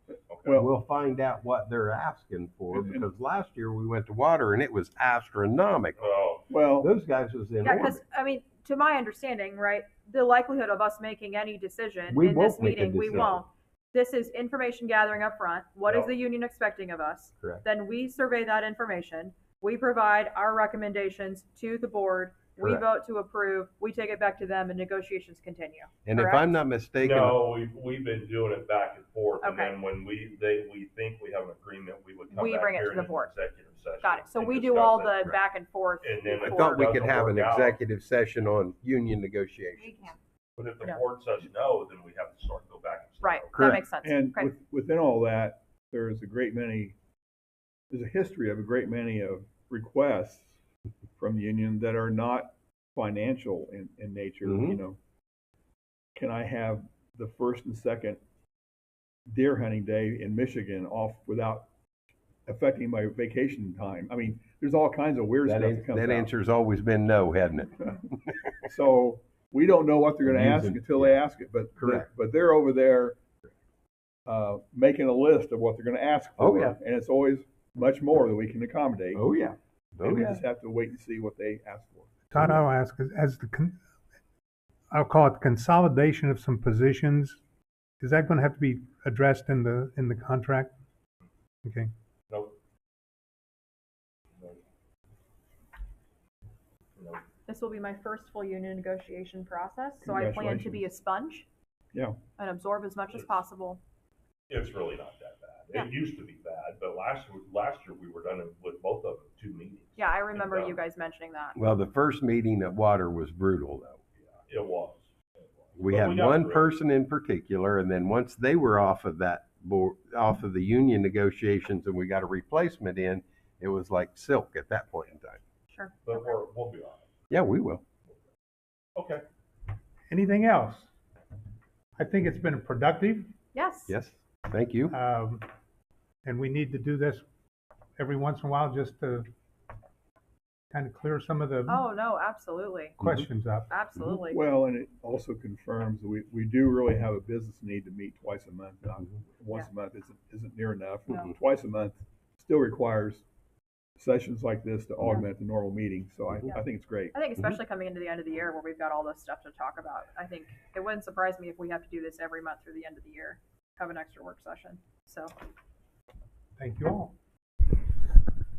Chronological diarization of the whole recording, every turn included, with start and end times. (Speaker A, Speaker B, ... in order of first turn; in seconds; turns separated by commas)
Speaker A: 0.3-0.6, Speaker B: 0.5-0.7, Speaker C: 0.5-6.0, Speaker B: 2.7-3.1, Speaker A: 6.0-6.5, Speaker B: 6.5-6.9, Speaker C: 6.8-8.0, Speaker D: 7.6-26.6, Speaker C: 12.1-13.4, Speaker A: 13.1-13.4, Speaker A: 15.8-16.1, Speaker C: 22.6-22.9, Speaker C: 26.1-27.4, Speaker A: 27.0-35.2, Speaker D: 29.4-29.8, Speaker D: 32.3-33.3, Speaker D: 34.0-36.9, Speaker A: 36.0-37.8, Speaker C: 36.4-40.0, Speaker D: 39.8-40.1, Speaker A: 40.6-43.7, Speaker D: 43.2-44.5, Speaker C: 43.5-43.9, Speaker B: 43.8-47.0, Speaker B: 47.9-50.5, Speaker B: 51.2-55.0, Speaker C: 54.5-54.8, Speaker B: 56.1-58.2, Speaker B: 59.3-61.7, Speaker B: 62.5-66.3, Speaker C: 65.5-68.7, Speaker B: 68.7-73.2, Speaker C: 70.3-71.2, Speaker C: 71.8-72.1, Speaker B: 74.3-79.2, Speaker C: 76.4-76.8, Speaker C: 79.1-80.4, Speaker B: 80.0-82.1, Speaker E: 82.3-83.8, Speaker E: 84.9-87.4, Speaker E: 88.0-90.7, Speaker E: 91.7-91.9, Speaker A: 92.3-92.6, Speaker A: 97.0-97.2, Speaker D: 97.5-101.5, Speaker B: 100.0-100.9, Speaker B: 101.9-102.2, Speaker D: 102.4-103.8, Speaker A: 103.1-103.3, Speaker A: 104.5-110.8, Speaker D: 110.0-111.6, Speaker C: 111.5-114.0, Speaker A: 114.2-116.7, Speaker C: 115.8-125.4, Speaker D: 125.7-126.4, Speaker A: 126.0-127.1, Speaker C: 127.3-127.8, Speaker A: 128.9-129.2, Speaker E: 130.1-130.9, Speaker E: 132.0-133.3, Speaker D: 133.5-133.9, Speaker C: 133.9-134.9, Speaker E: 134.9-135.4, Speaker E: 136.2-137.3, Speaker E: 138.0-139.3, Speaker E: 140.7-141.9, Speaker D: 141.7-143.0, Speaker E: 143.0-143.7, Speaker C: 143.0-143.3, Speaker D: 143.7-144.4, Speaker B: 144.3-153.2, Speaker B: 154.0-157.2, Speaker D: 156.4-165.3, Speaker E: 166.6-167.2